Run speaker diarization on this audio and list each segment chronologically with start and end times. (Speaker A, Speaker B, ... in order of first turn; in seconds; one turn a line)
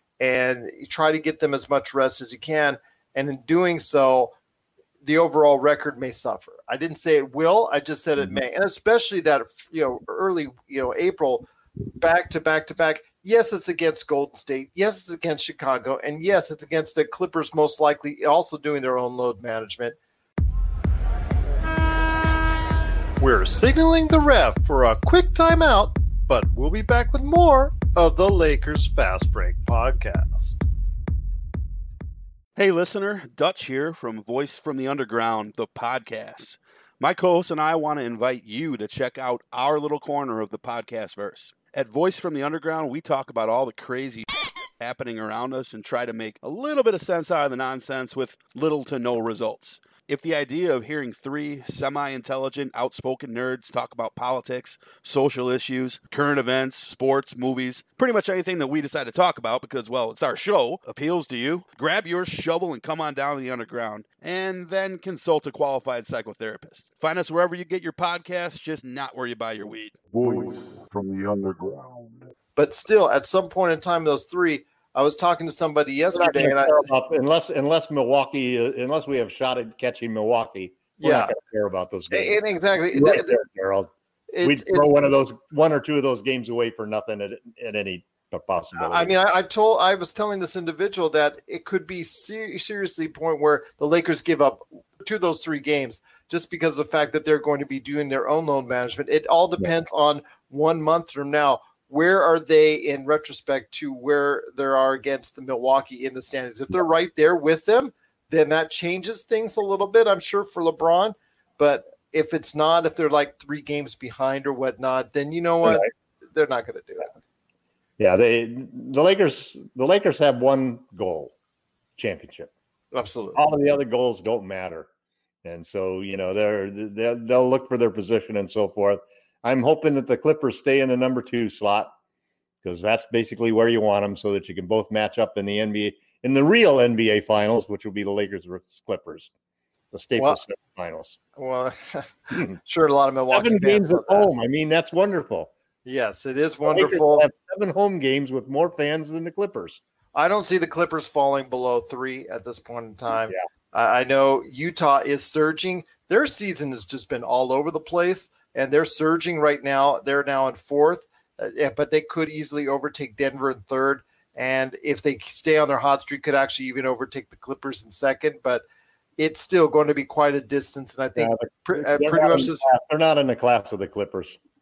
Speaker A: 0.2-4.3
Speaker A: 5.0-11.5
Speaker A: 12.0-20.0
Speaker A: 23.2-30.6
Speaker B: 32.6-44.2
Speaker B: 44.8-70.0
Speaker C: 70.1-72.2
Speaker A: 72.6-76.9
Speaker D: 76.1-83.9
Speaker A: 81.0-81.3
Speaker A: 82.1-83.4
Speaker A: 84.3-85.0
Speaker D: 84.4-89.1
Speaker A: 88.8-117.1
Speaker D: 118.0-121.3
Speaker D: 122.0-122.5
Speaker A: 122.9-123.5
Speaker D: 123.3-124.9
Speaker D: 125.4-131.9
Speaker D: 132.6-139.3
Speaker D: 139.9-141.2
Speaker A: 141.4-144.3
Speaker D: 143.3-145.5
Speaker A: 145.8-147.3
Speaker D: 146.7-149.8
Speaker A: 150.2-168.6
Speaker A: 169.2-172.7
Speaker D: 171.2-174.4